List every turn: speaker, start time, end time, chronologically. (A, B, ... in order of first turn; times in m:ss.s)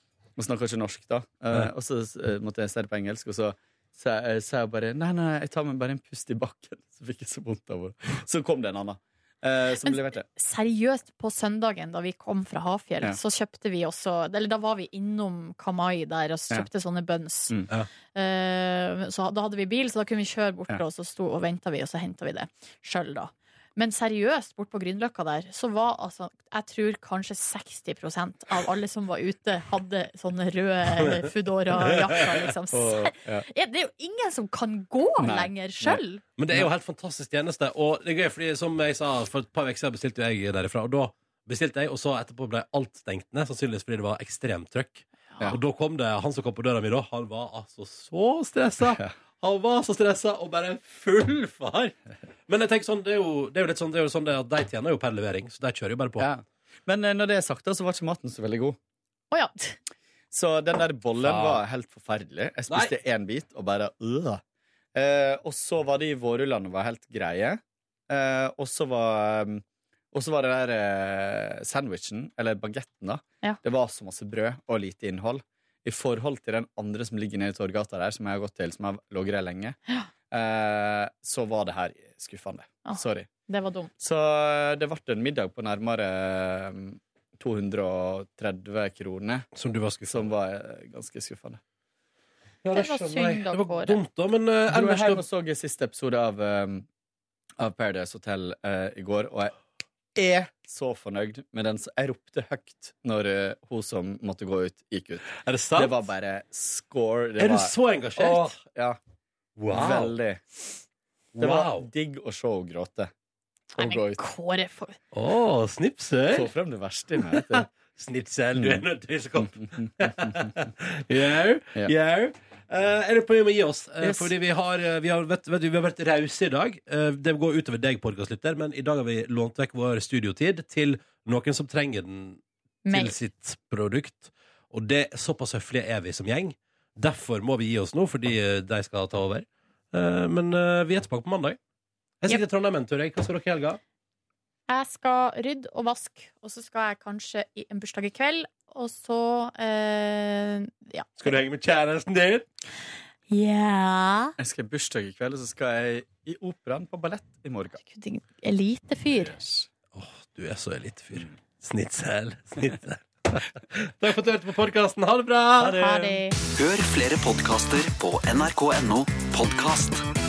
0:00.4-0:10.3 A
0:09.8-0:17.6 B
0:18.1-0:36.2 B
0:32.7-0:33.5 A
0:35.2-0:36.0 A
0:36.4-0:51.9 C
0:52.5-0:56.3 C
0:56.2-0:58.8 A
0:59.3-0:59.8 B
1:00.3-1:04.4 A
1:01.2-1:01.6 C
1:05.0-1:19.8 A
1:20.3-1:23.3 A
1:22.9-1:23.9 B
1:24.0-1:29.5 A
1:29.5-1:30.3 C
1:30.1-1:31.6 A
1:32.6-1:35.2 C
1:32.7-1:34.0 B
1:34.7-1:36.9 A
1:37.6-1:39.5 A
1:40.2-1:49.0 A
1:45.4-1:46.0 C
1:47.4-1:48.6 C
1:49.6-1:50.2 C
1:49.7-1:50.4 A
1:51.4-1:51.9 C
1:51.4-1:53.1 A
1:53.7-1:54.2 A
1:53.8-1:55.0 B
1:55.1-1:56.5 C
1:56.3-1:57.7 A
1:57.2-2:21.6 C
1:58.6-1:58.8 A
1:59.4-2:00.5 A
2:04.0-2:04.3 A
2:12.8-2:13.2 B
2:22.2-2:23.8 C
2:24.7-2:31.3 B
2:31.2-2:32.5 C
2:33.3-2:34.4 B
2:34.4-2:37.8 A
2:37.8-2:39.4 B
2:39.1-2:39.7 A
2:39.9-2:46.1 C
2:45.6-2:46.4 B
2:46.5-2:50.0 D